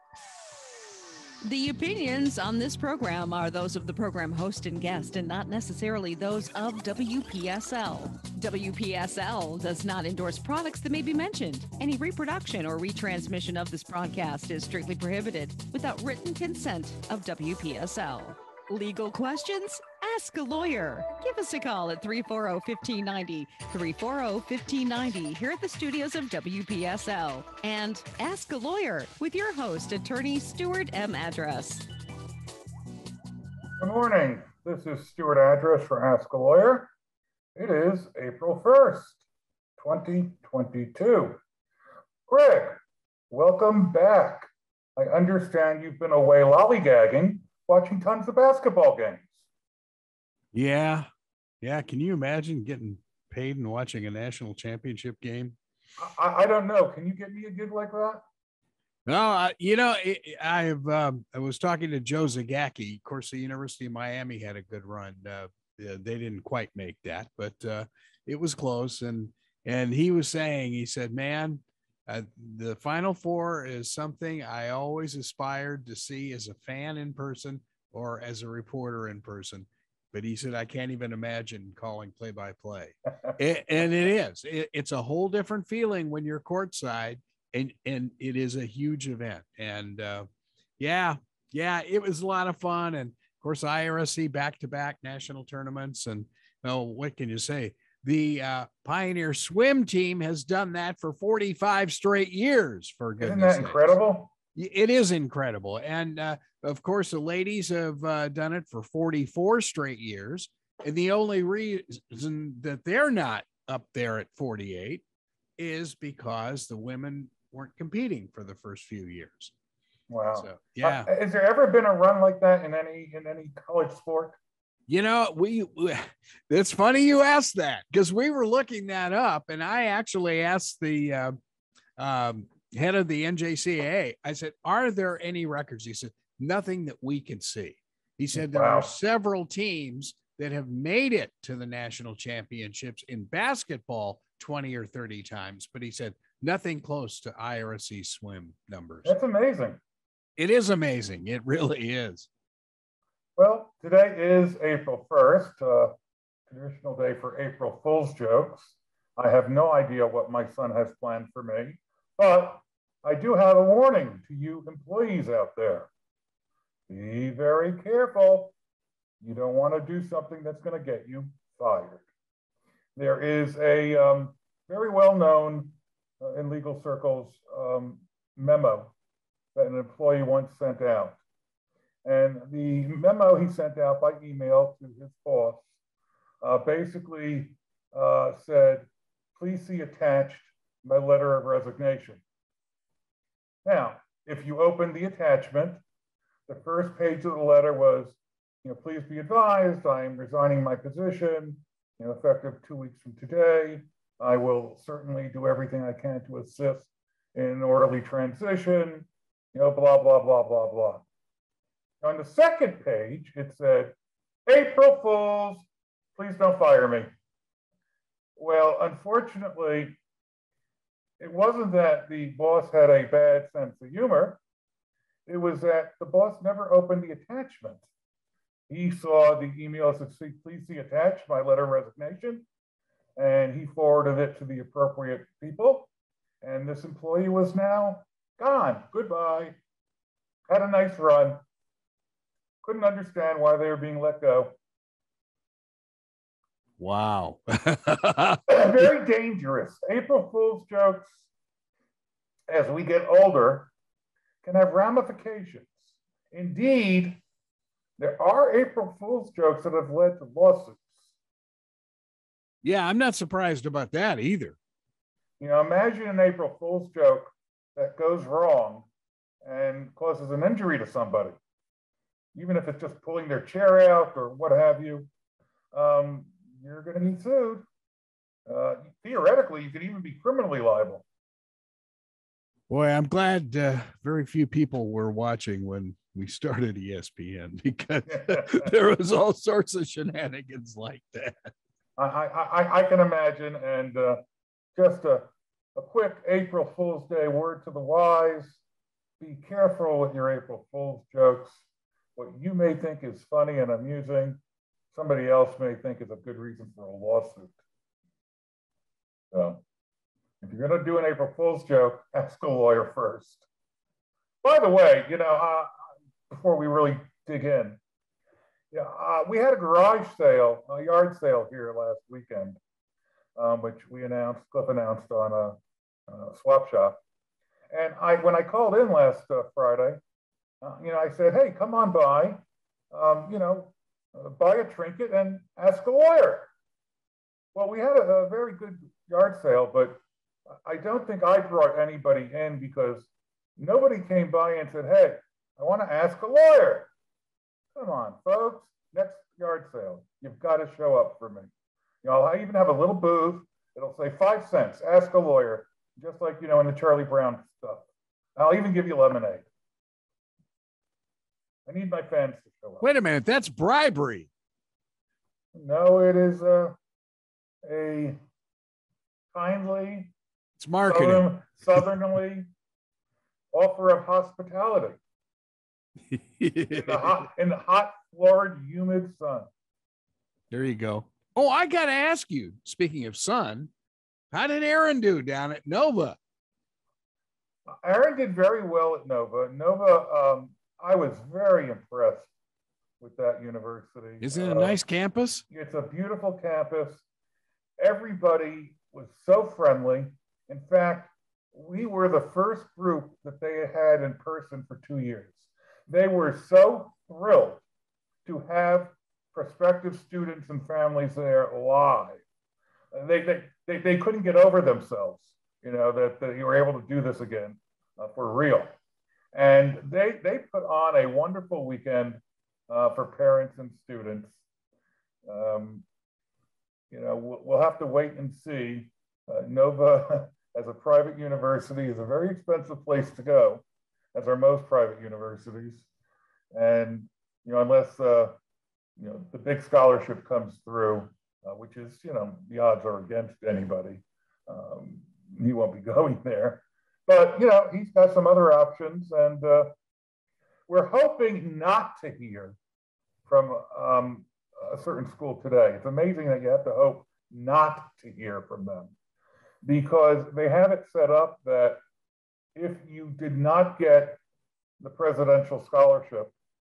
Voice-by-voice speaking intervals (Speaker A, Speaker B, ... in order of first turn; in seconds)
Speaker A: 1.4-31.9
Speaker B: 33.8-36.9, 37.5-39.2, 39.8-41.4, 42.3-42.8, 43.3-49.4, 56.0-58.2, 103.2-104.3, 120.1-124.4, 138.3-138.9, 149.0-149.8, 153.4-155.9, 156.5-165.9, 166.9-168.5, 169.2-172.0, 172.9-178.9, 179.5-181.2, 182.0-185.7, 186.4-192.2, 193.6-195.8, 196.5-211.0, 212.0-213.9, 214.5-217.1, 218.3-219.9, 221.2-224.4, 225.3-227.8, 228.7-232.4, 233.2-235.9, 236.4-239.6, 240.5-241.4, 242.6-244.6, 248.5-251.3, 252.5-253.7, 254.4-257.2, 258.0-261.1, 265.4-268.9, 269.4-271.4, 272.3-275.1, 275.7-277.6, 278.4-281.0, 288.1-288.7, 292.0-294.2, 294.7-298.6, 299.2-301.6, 302.1-304.4, 304.9-307.6, 309.3-309.6, 310.4-313.5, 314.4-315.7, 316.3-317.8, 318.7-322.6, 323.4-325.6, 326.1-327.0, 327.7-330.0, 330.6-336.5, 337.5-340.0, 340.6-346.9, 347.7-351.5, 352.0-359.5, 361.6-362.9, 365.5-366.8, 367.6-368.2, 369.3-370.1, 370.9-372.5, 373.5-375.0, 376.7-379.5, 387.7-392.3, 393.0-394.8, 395.5-397.0, 397.8-407.6, 408.2-412.2, 412.9-418.7, 419.3-424.4, 425.2-425.8, 426.9-435.9, 436.5-438.3, 439.0-449.7, 450.7-452.6, 453.2-458.9, 459.6-461.8, 462.5-464.2, 464.8-466.3
Speaker C: 50.5-51.1, 51.6-55.5, 59.0-90.3, 90.8-104.0, 104.5-115.0, 115.6-119.5, 120.3-121.1, 124.9-131.4, 132.0-149.1, 150.4-152.3, 246.8-248.8, 262.6-264.6, 282.7-291.5, 362.8-364.3, 370.6-371.3, 376.1-377.2, 380.5-383.7, 384.3-386.2, 394.2-395.4